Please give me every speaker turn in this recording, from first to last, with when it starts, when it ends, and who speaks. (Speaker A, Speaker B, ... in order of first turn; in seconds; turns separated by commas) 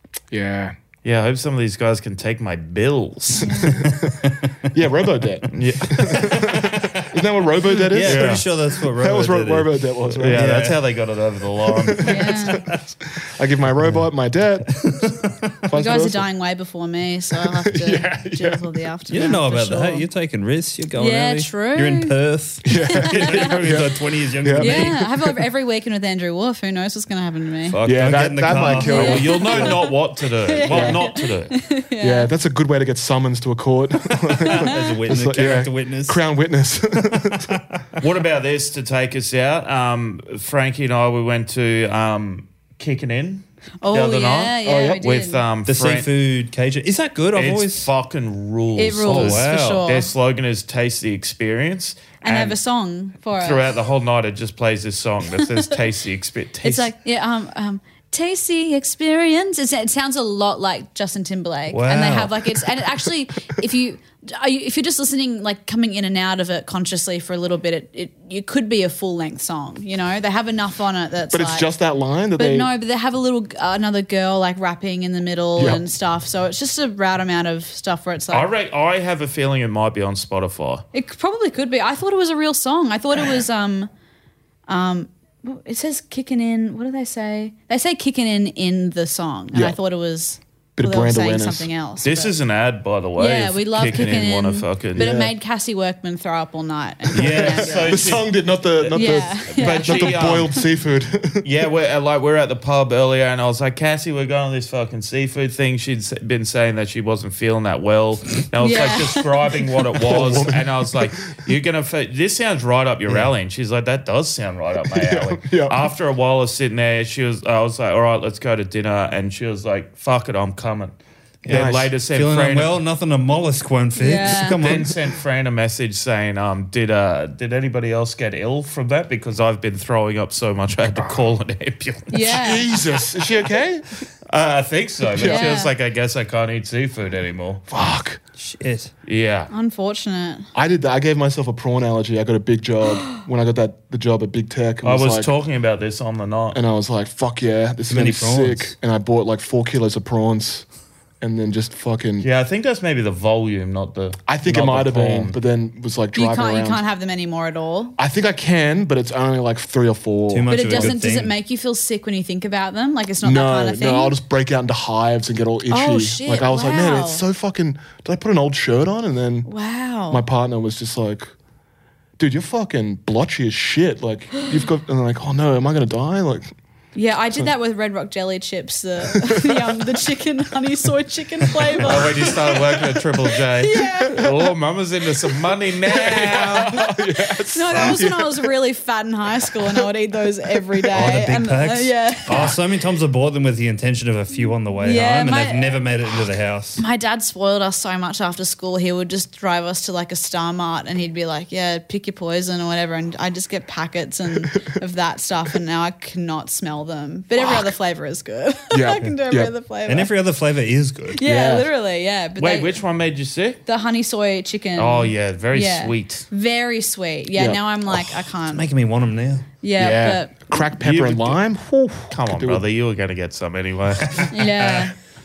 Speaker A: 0.3-0.8, Speaker B: 1.0-3.7, Speaker C: 3.4-3.9, Speaker A: 3.6-4.2, Speaker D: 3.9-4.5, Speaker A: 4.7-10.5, Speaker B: 5.5-6.3, Speaker D: 6.0-7.1, Speaker D: 7.7-10.8, Speaker B: 8.0-8.4, Speaker B: 10.2-12.2, Speaker A: 11.7-14.8, Speaker C: 12.0-12.6, Speaker D: 14.8-15.5, Speaker A: 15.6-16.2, Speaker C: 15.7-20.1, Speaker A: 17.6-18.8, Speaker D: 19.1-25.1, Speaker C: 20.9-22.1, Speaker A: 22.6-25.1, Speaker C: 22.8-23.4, Speaker C: 24.6-27.8, Speaker D: 27.7-29.3, Speaker A: 27.9-29.8, Speaker C: 28.5-32.3, Speaker B: 28.9-31.5, Speaker A: 30.7-31.0, Speaker A: 32.0-37.6, Speaker C: 34.4-35.0, Speaker D: 34.4-36.2, Speaker D: 37.1-38.0, Speaker B: 38.0-46.1, Speaker C: 43.8-45.4, Speaker A: 44.6-45.0, Speaker D: 45.7-47.9, Speaker B: 47.3-52.6, Speaker C: 48.8-50.1, Speaker D: 49.0-49.8, Speaker C: 52.2-53.6, Speaker B: 53.4-56.9, Speaker C: 56.6-71.7, Speaker D: 61.7-62.5, Speaker A: 71.3-72.7, Speaker C: 72.4-78.5, Speaker A: 75.6-75.8, Speaker B: 78.3-80.8, Speaker C: 80.9-83.9, Speaker C: 84.7-92.3, Speaker A: 90.8-91.7, Speaker B: 92.0-95.1, Speaker C: 93.2-98.2, Speaker A: 95.0-95.3, Speaker B: 97.2-100.6, Speaker A: 97.2-101.5, Speaker C: 98.9-100.2, Speaker B: 101.4-122.8, Speaker C: 108.6-109.3, Speaker A: 110.0-111.0, Speaker A: 114.9-115.9, Speaker D: 121.5-124.9, Speaker A: 121.5-121.9, Speaker C: 124.0-124.6, Speaker B: 124.6-132.4, Speaker C: 132.1-132.7, Speaker A: 132.2-133.8, Speaker B: 134.3-137.6, Speaker A: 135.1-135.6, Speaker C: 135.2-135.7, Speaker A: 137.7-138.2, Speaker D: 138.4-138.9, Speaker B: 139.1-139.5, Speaker C: 139.5-140.5, Speaker A: 140.5-145.3, Speaker B: 144.8-146.6, Speaker A: 146.5-150.7, Speaker D: 147.9-148.7, Speaker A: 151.2-152.3, Speaker B: 152.2-155.3, Speaker A: 154.3-156.8, Speaker C: 156.1-158.0, Speaker A: 158.0-161.0, Speaker D: 160.3-161.3, Speaker C: 160.5-164.2, Speaker A: 163.2-169.5, Speaker C: 165.7-167.2, Speaker C: 169.5-170.2, Speaker A: 170.1-171.3, Speaker A: 172.2-176.5, Speaker C: 176.9-182.3, Speaker A: 179.1-179.7, Speaker B: 181.8-186.8, Speaker A: 181.9-183.0, Speaker C: 183.6-184.3, Speaker A: 183.8-184.5, Speaker A: 185.8-188.5, Speaker C: 186.7-192.5, Speaker A: 189.5-189.9, Speaker A: 190.5-191.2, Speaker D: 190.9-196.8, Speaker B: 192.3-192.6, Speaker C: 194.8-195.8, Speaker C: 196.8-210.1, Speaker A: 207.4-207.7, Speaker A: 208.7-209.5, Speaker D: 209.9-211.2, Speaker C: 211.1-212.8, Speaker A: 211.2-211.7, Speaker B: 212.4-213.6, Speaker C: 213.7-218.6, Speaker B: 214.8-216.3, Speaker A: 217.4-217.6, Speaker D: 218.5-219.5, Speaker C: 219.6-220.3, Speaker A: 219.8-222.6, Speaker B: 220.8-221.4, Speaker B: 222.1-224.3, Speaker C: 224.3-224.9